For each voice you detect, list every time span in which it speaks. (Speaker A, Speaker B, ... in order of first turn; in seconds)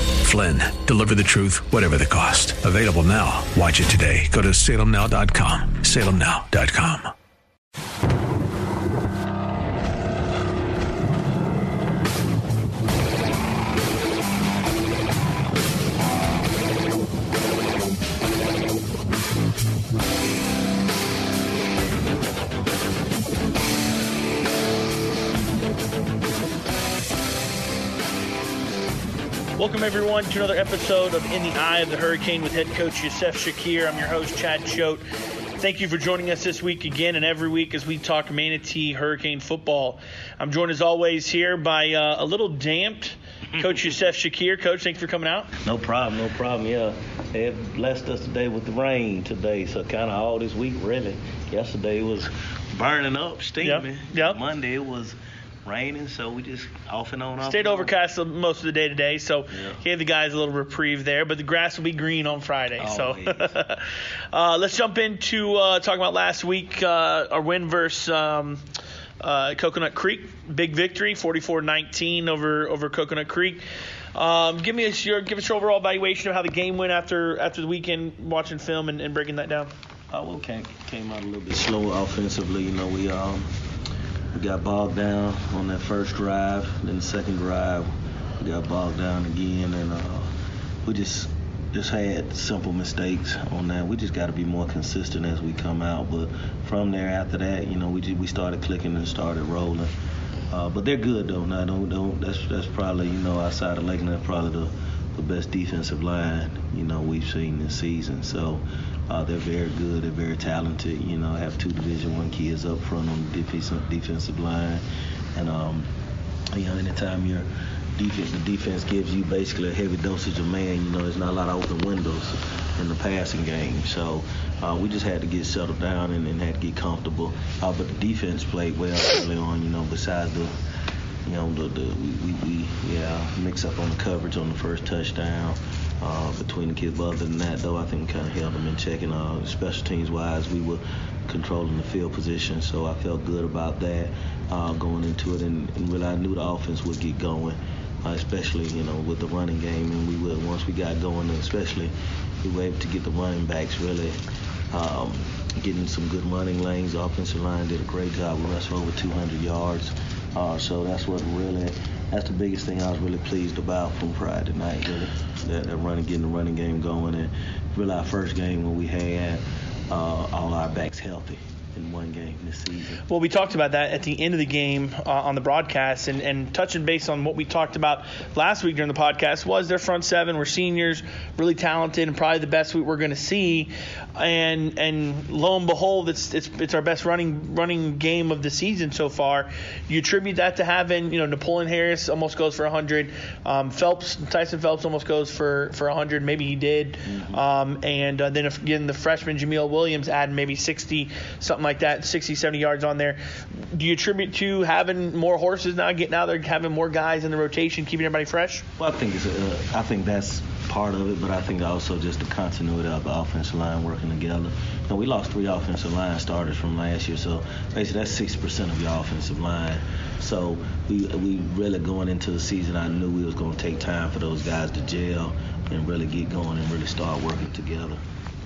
Speaker A: 0.2-7.1
Speaker B: 29.6-35.0, 35.6-45.5, 53.6-54.4, 57.4-68.6, 69.2-73.6, 74.1-79.7, 173.1-208.7
Speaker C: 45.6-57.9, 59.5-59.8, 62.8-63.5, 80.1-83.5, 84.3-90.3, 90.8-99.9, 100.5-114.8, 115.3-115.9, 116.5-130.5, 131.2-154.2, 154.7-173.0, 197.1-197.4, 208.8-228.0